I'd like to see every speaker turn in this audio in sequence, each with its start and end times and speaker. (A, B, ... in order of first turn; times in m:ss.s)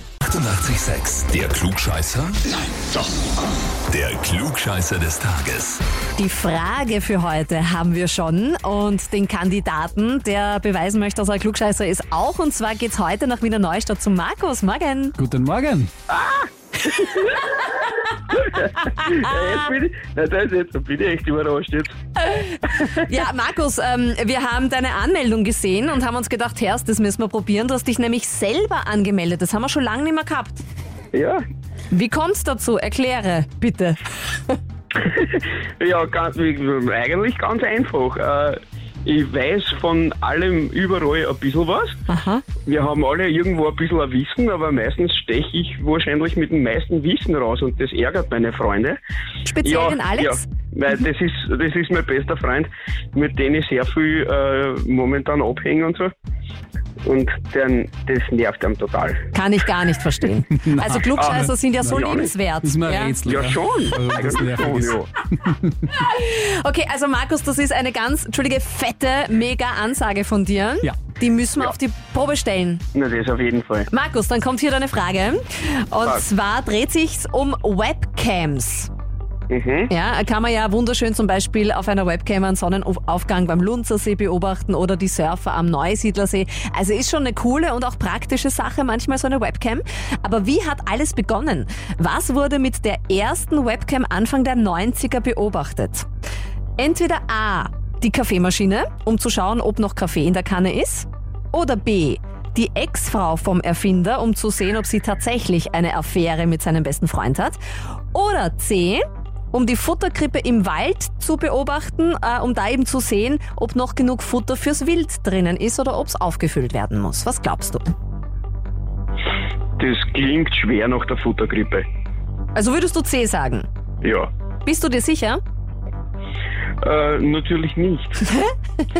0:00.2-0:02.6 A
0:03.9-0:05.8 A
0:06.2-0:15.2 B
0:15.2-0:15.9 C
0:16.1-0:17.5 D
0:18.3-0:21.9 D
0:19.0-0:19.5 B
0:22.2-0:30.6 B
0:31.1-0:31.4 D
0:31.9-0:34.6 B
0:35.0-0:42.0 D
0:42.1-0:42.4 B
0:42.6-0:49.0 D
0:49.4-0:50.4 B
0:49.6-0:56.1 D
0:57.0-0:59.2 D
0:59.3-1:03.2 B
1:00.6-1:02.0 C
1:01.2-1:02.3 D
1:02.6-1:05.7 C
1:03.2-1:05.1 D
1:05.9-1:12.8 B
1:12.9-1:13.9 D
1:13.9-1:18.9 B
1:19.5-1:19.9 D
1:19.9-1:36.1 B
1:36.8-1:47.6 B
1:48.1-1:57.9 B
1:59.8-2:01.8 D
2:02.5-2:03.7 B
2:04.0-2:04.3 D
2:04.6-2:05.4 B
2:06.8-2:08.3 D